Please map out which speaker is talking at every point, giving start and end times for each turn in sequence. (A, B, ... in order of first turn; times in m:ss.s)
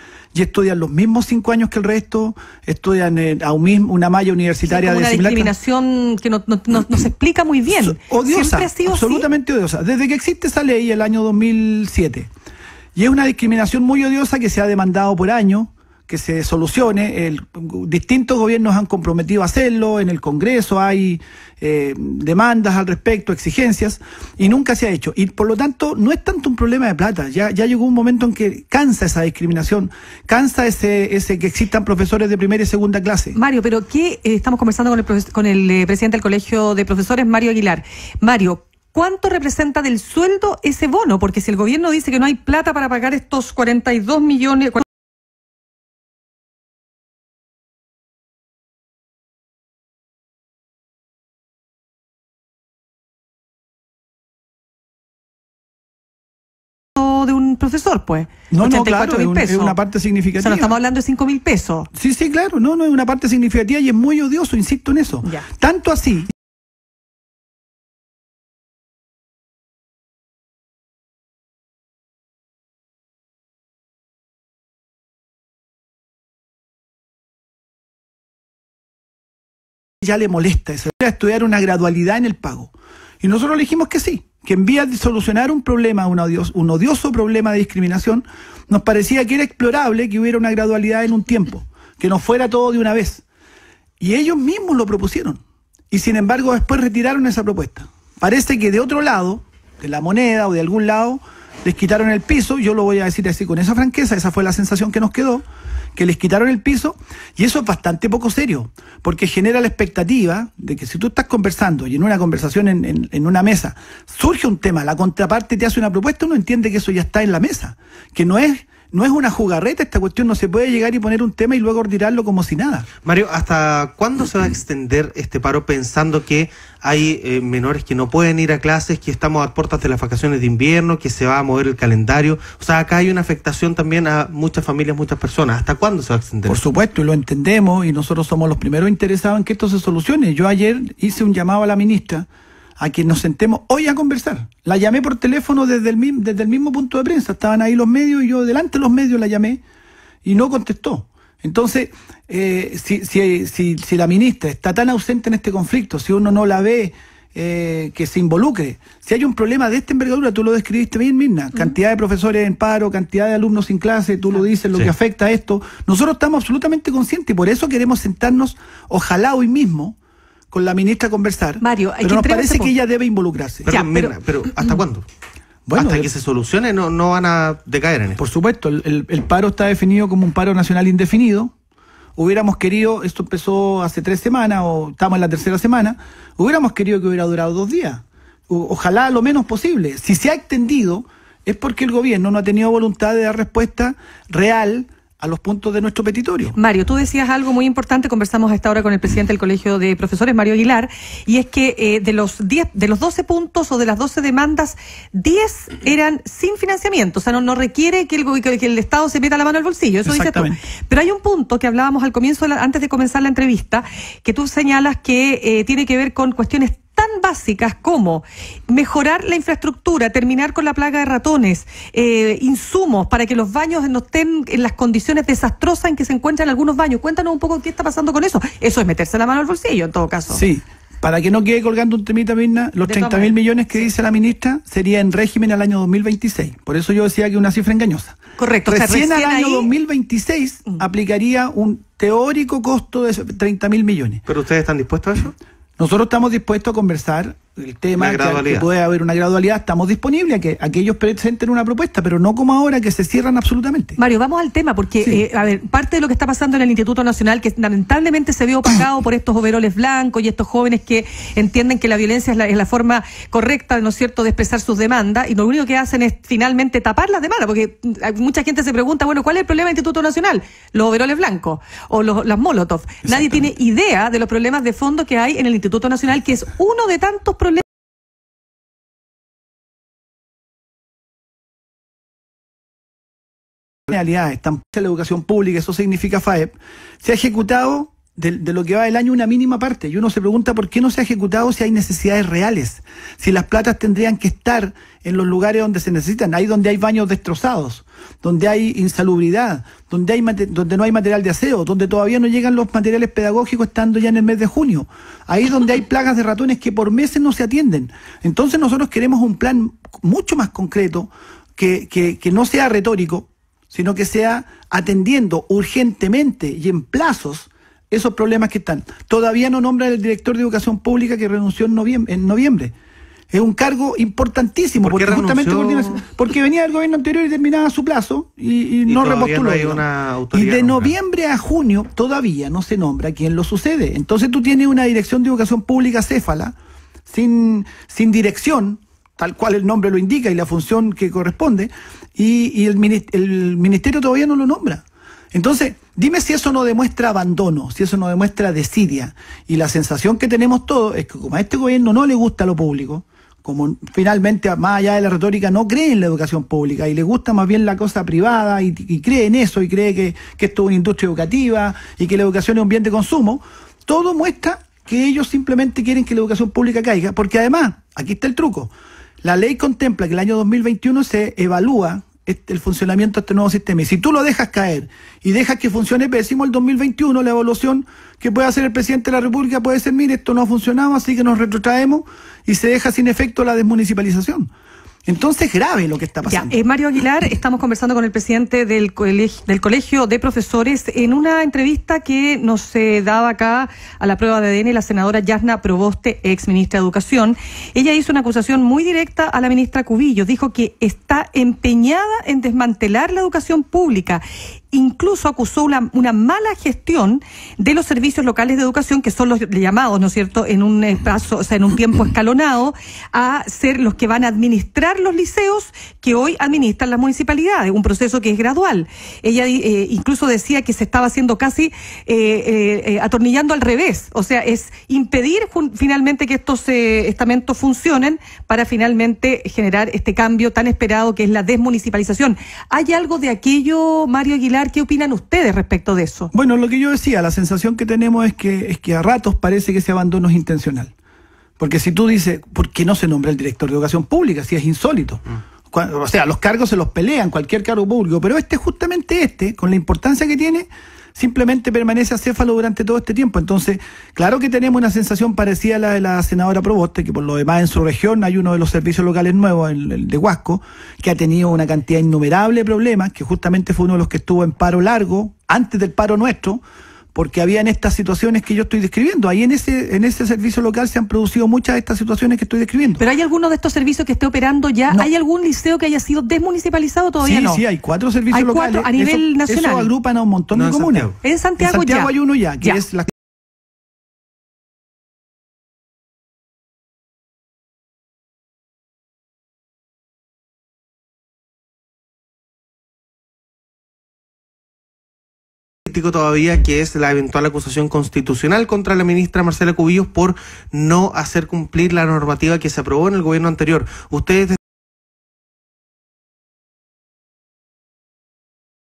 0:00.3-0:05.5 A
0:04.7-0:09.3 B
0:07.7-0:12.3 A
0:12.9-0:33.4 A
0:33.3-0:44.8 B
0:57.0-0:59.8 B
0:58.5-1:00.7 A
1:00.4-1:01.9 B
1:01.9-1:06.3 A
1:20.0-1:33.2 A
1:34.0-1:45.4 A
1:46.0-2:02.9 A
2:03.0-2:16.6 C
2:16.4-2:22.3 A
2:22.8-2:29.6 A
2:30.2-2:50.0 A
2:50.5-2:53.7 A
2:51.6-2:52.7 B
2:53.6-2:55.0 C
2:53.7-2:54.1 B
2:55.6-2:56.1 A
2:55.7-2:58.2 C
2:58.2-3:01.5 A
3:02.2-3:16.6 A
3:16.5-3:50.4 B
3:30.0-3:30.6 A
3:50.3-4:04.2 A
3:52.8-3:53.9 B
3:58.4-3:59.7 B
4:04.3-4:05.3 C
4:05.8-4:14.0 A
4:08.0-4:08.6 C
4:14.0-4:37.6 B
4:33.0-4:33.4 A
4:43.9-5:22.7 A
5:23.3-5:36.5 A
5:24.8-5:26.0 C
5:28.9-5:30.9 C
5:37.1-6:24.5 A
6:25.0-6:26.6 A
6:26.3-7:16.3 B
7:16.3-7:20.9 A
7:21.6-7:46.6 A
7:47.1-7:53.0 A
7:53.0-7:57.6 B
7:57.2-8:03.1 A
7:58.3-7:59.9 B
8:00.5-8:01.1 C
8:01.2-8:02.8 B
8:15.9-8:24.6 C